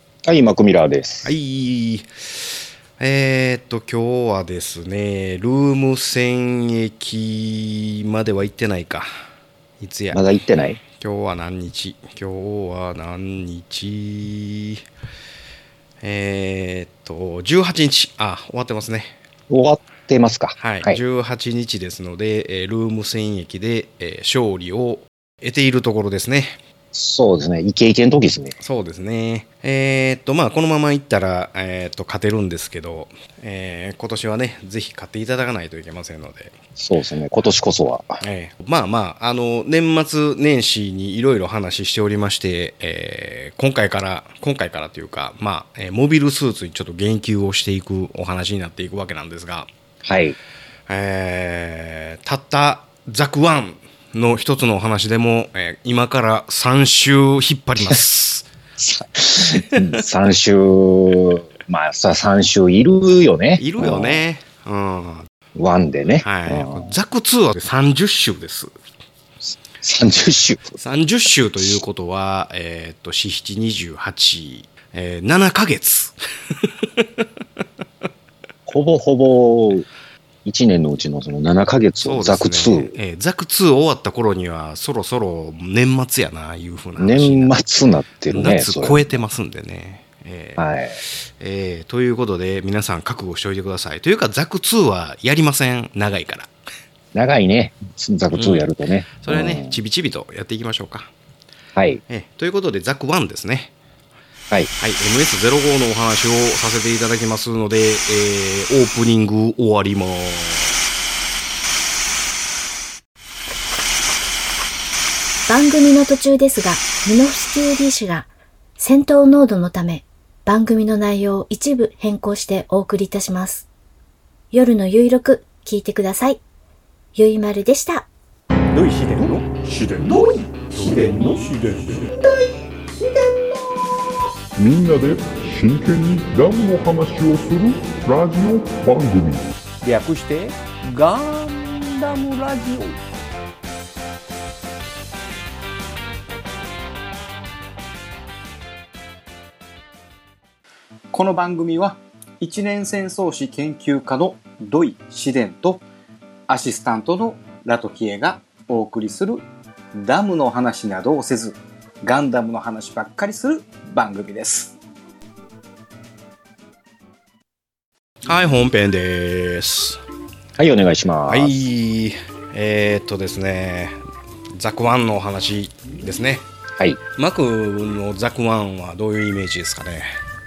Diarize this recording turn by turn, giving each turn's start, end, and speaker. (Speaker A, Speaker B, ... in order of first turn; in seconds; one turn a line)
Speaker A: 0.2-1.3
Speaker B: 1.2-2.1
Speaker B: 3.0-9.1
Speaker B: 9.8-10.2
Speaker A: 10.1-10.8
Speaker B: 10.9-14.8
Speaker B: 16.0-19.1
Speaker A: 19.5-21.0
Speaker B: 20.6-26.6
Speaker A: 26.9-28.6
Speaker B: 28.6-36.6
Speaker A: 36.8-38.2
Speaker B: 38.2-49.7
Speaker A: 50.0-50.4
Speaker B: 50.9-58.5
Speaker A: 58.8-64.2
Speaker B: 63.6-65.3
Speaker A: 65.5-66.9
Speaker B: 66.2-68.7
Speaker A: 69.8-70.8
Speaker B: 70.8-77.2
Speaker A: 78.7-79.9
Speaker A: 80.4-83.0
Speaker B: 82.0-87.5
Speaker A: 87.0-89.2
Speaker B: 88.3-90.6
Speaker A: 90.6-91.0
Speaker B: 91.4-96.5
Speaker A: 97.1-99.8
Speaker B: 98.3-101.1
Speaker A: 101.8-102.0
Speaker B: 102.1-103.7
Speaker B: 104.8-110.8
Speaker C: 115.5-123.7
Speaker C: 124.5-126.4
Speaker C: 127.1-128.1
Speaker D: 128.7-131.9
Speaker E: 130.9-131.8
Speaker E: 134.6-139.5
Speaker D: 139.8-142.9
Speaker D: 151.1-155.8
Speaker D: 156.5-164.8
Speaker B: 168.2-170.0
Speaker A: 170.6-171.6
Speaker B: 171.3-174.0
Speaker B: 174.5-176.5
Speaker B: 177.2-180.1